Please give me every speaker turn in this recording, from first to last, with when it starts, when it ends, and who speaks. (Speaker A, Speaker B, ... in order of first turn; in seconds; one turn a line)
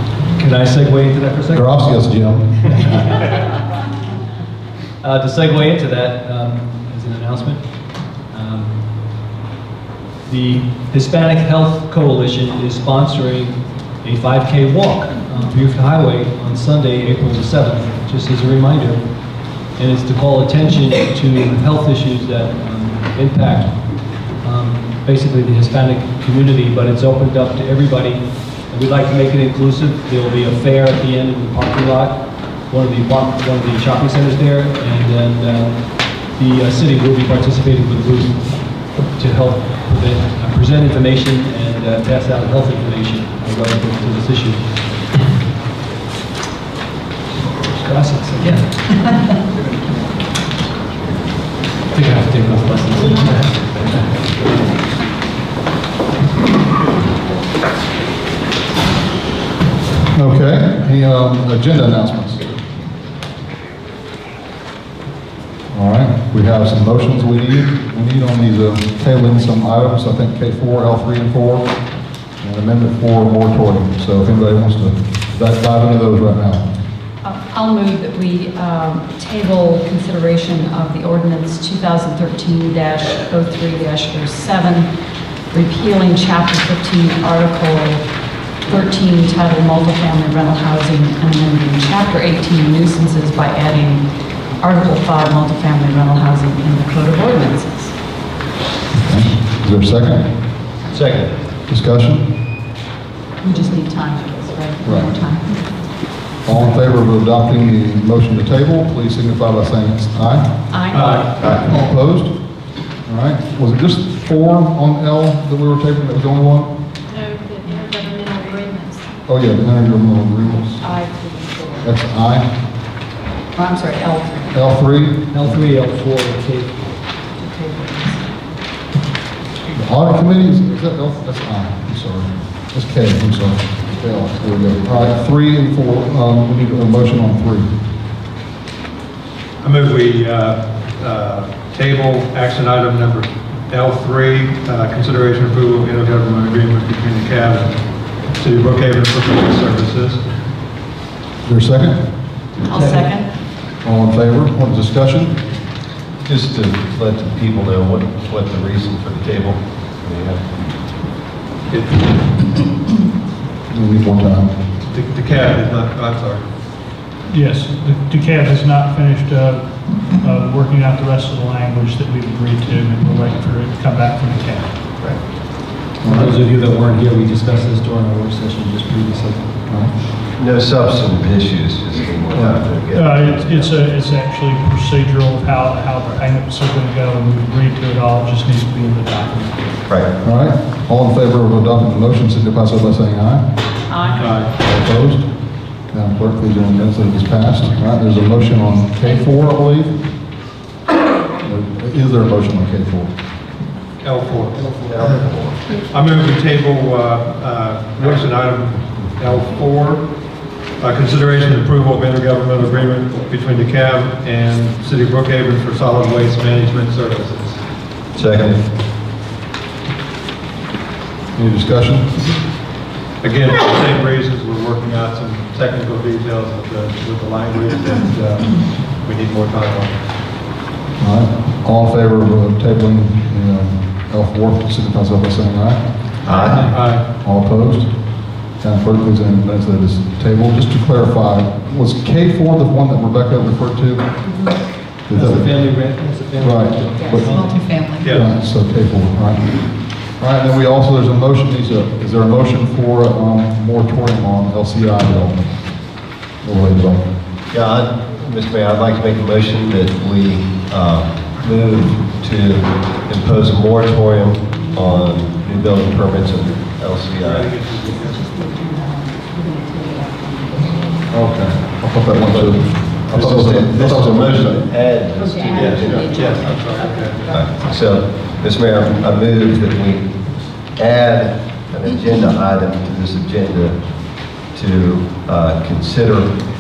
Speaker A: 0.3-1.7
Speaker B: 1.5-3.0
Speaker A: 5.0-7.6
Speaker A: 8.3-8.8
Speaker A: 10.3-19.0
Speaker A: 19.7-44.9
Speaker A: 47.4-48.8
Speaker C: 48.4-49.4
Speaker A: 51.9-54.5
Speaker B: 60.1-62.5
Speaker B: 65.7-71.7
Speaker B: 72.4-76.7
Speaker C: 77.2-84.9
Speaker C: 85.5-88.0
Speaker C: 88.6-94.0
Speaker C: 94.6-98.0
Speaker B: 98.9-100.3
Speaker D: 100.9-101.3
Speaker B: 101.7-102.3
Speaker C: 103.4-105.7
Speaker B: 104.8-105.1
Speaker B: 106.4-110.6
Speaker C: 110.7-111.4
Speaker E: 110.9-111.3
Speaker B: 111.4-112.4
Speaker D: 111.4-111.7
Speaker B: 113.0-116.7
Speaker F: 117.1-119.1
Speaker B: 119.3-120.9
Speaker C: 120.8-121.9
Speaker B: 121.8-122.5
Speaker C: 123.5-124.7
Speaker B: 124.5-125.7
Speaker A: 125.3-126.8
Speaker C: 127.3-128.3
Speaker B: 129.7-137.7
Speaker E: 139.6-147.8
Speaker E: 148.3-150.2
Speaker B: 151.4-152.0
Speaker A: 152.6-153.1
Speaker C: 152.6-153.3
Speaker B: 153.8-155.4
Speaker D: 156.2-160.4
Speaker E: 161.7-162.1
Speaker B: 163.7-164.6
Speaker E: 164.8-166.4
Speaker G: 167.3-174.7
Speaker B: 176.0-176.4
Speaker A: 176.0-179.7
Speaker D: 180.3-183.7
Speaker B: 182.3-182.6
Speaker G: 182.9-189.7
Speaker D: 189.9-190.1
Speaker B: 190.2-193.4
Speaker C: 193.9-194.4
Speaker E: 194.2-194.6
Speaker B: 194.6-195.3
Speaker B: 195.9-200.0
Speaker B: 201.4-203.1
Speaker E: 204.0-205.2
Speaker D: 204.3-205.7
Speaker E: 205.8-210.1
Speaker E: 210.8-217.6
Speaker D: 218.1-218.6
Speaker B: 221.3-222.3
Speaker E: 223.2-230.0
Speaker B: 231.0-235.9
Speaker D: 236.2-236.7
Speaker E: 236.2-237.1
Speaker A: 236.5-236.7
Speaker B: 237.1-237.9
Speaker B: 238.6-244.1
Speaker C: 244.2-244.6
Speaker B: 245.1-245.8
Speaker A: 245.1-247.7
Speaker B: 246.4-255.7
Speaker C: 247.0-248.1
Speaker E: 248.0-248.3
Speaker B: 256.4-257.1
Speaker D: 257.5-267.5
Speaker C: 264.5-265.8
Speaker E: 267.2-268.2
Speaker C: 267.9-271.1
Speaker B: 271.1-274.6
Speaker D: 272.3-272.6
Speaker D: 273.1-276.2
Speaker C: 275.1-277.8
Speaker E: 275.4-277.5
Speaker D: 277.3-280.1
Speaker D: 280.7-283.8
Speaker D: 284.5-286.4